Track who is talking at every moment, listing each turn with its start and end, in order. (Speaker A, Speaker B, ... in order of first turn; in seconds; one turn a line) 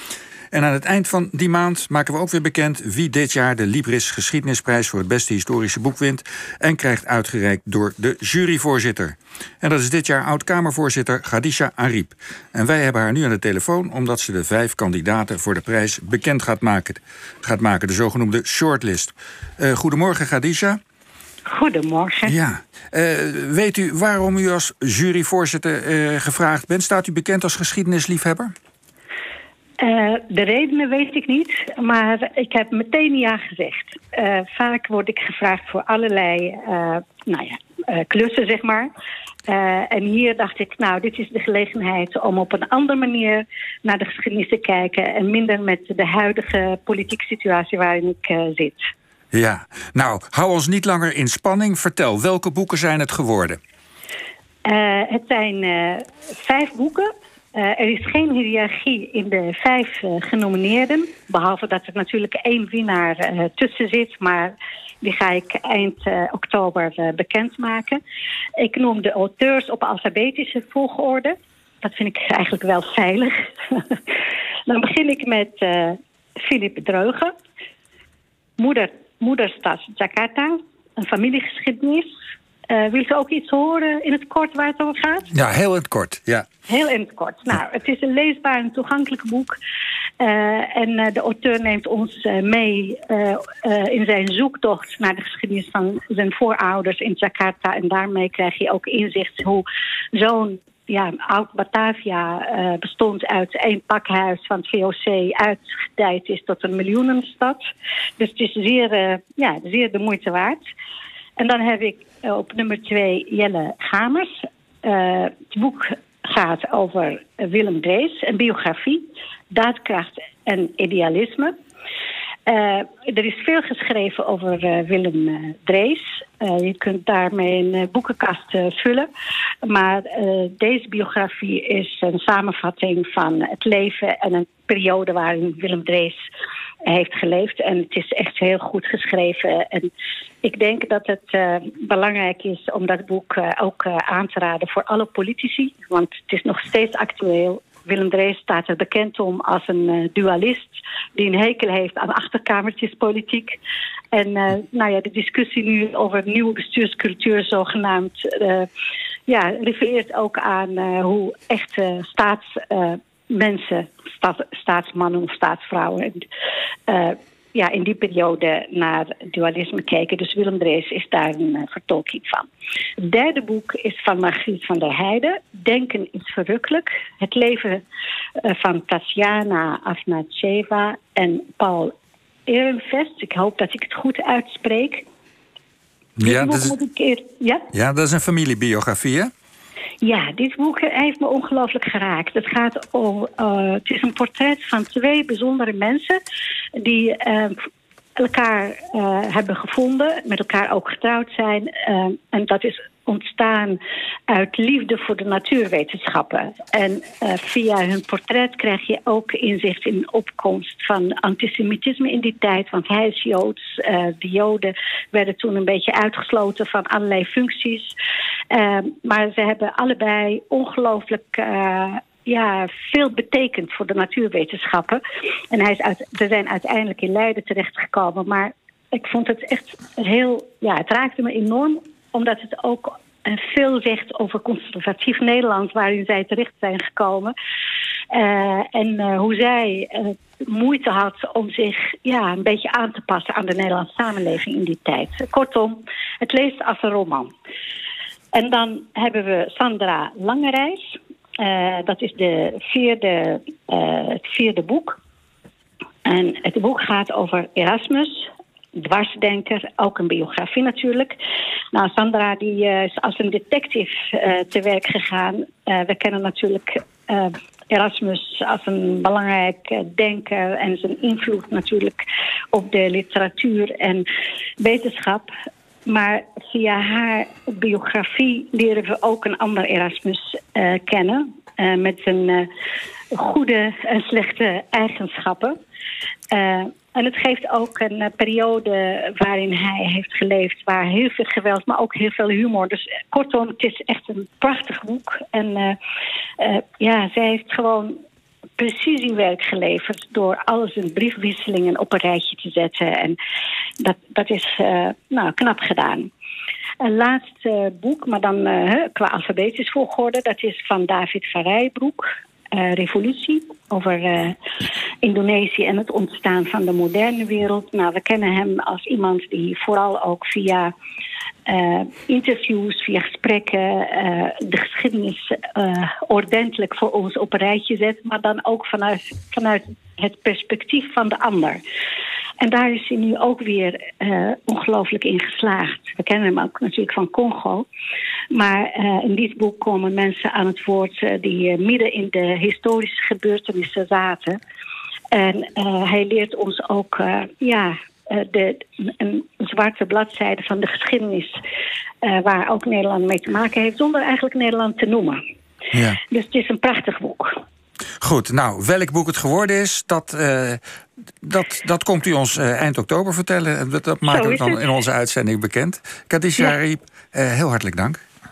Speaker A: 0.5-20.8
Speaker B: 21.4-22.3
Speaker A: 22.2-28.5
Speaker B: 29.8-38.9
Speaker B: 39.5-48.9
Speaker A: 49.3-53.6
Speaker B: 54.6-68.0
Speaker B: 68.6-74.2
Speaker B: 74.7-77.3
Speaker B: 78.6-82.1
Speaker B: 82.7-85.3
Speaker A: 85.3-86.5
Speaker B: 86.7-89.6
Speaker B: 90.2-107.6
Speaker B: 108.2-110.6
Speaker B: 111.4-121.5
Speaker B: 122.5-129.1
Speaker B: 129.6-136.2
Speaker B: 136.8-139.9
Speaker B: 140.4-153.6
Speaker B: 154.1-158.7
Speaker B: 159.3-166.2
Speaker B: 166.9-177.8
Speaker B: 178.4-181.9
Speaker B: 182.5-185.1
Speaker A: 186.2-186.7
Speaker B: 186.2-187.7
Speaker A: 187.7-189.3
Speaker B: 190.0-196.2
Speaker B: 196.8-197.6
Speaker B: 198.2-217.9
Speaker B: 218.5-237.3
Speaker B: 238.1-247.3
Speaker B: 248.3-255.0
Speaker B: 256.0-261.2
Speaker B: 261.7-274.1
Speaker B: 274.6-275.3
Speaker B: 275.9-282.5
Speaker B: 283.1-285.6
Speaker B: 286.3-295.8
Speaker B: 296.4-298.0
Speaker B: 298.6-303.2
Speaker B: 303.8-306.1
Speaker B: 306.8-314.4
Speaker B: 315.0-320.7
Speaker B: 321.4-331.6
Speaker B: 332.4-337.7
Speaker B: 338.3-344.4
Speaker B: 345.1-351.4
Speaker B: 352.0-355.2
Speaker A: 355.7-356.0
Speaker B: 356.1-357.4
Speaker A: 358.0-360.6
Speaker A: 361.2-368.0
Speaker B: 364.0-364.6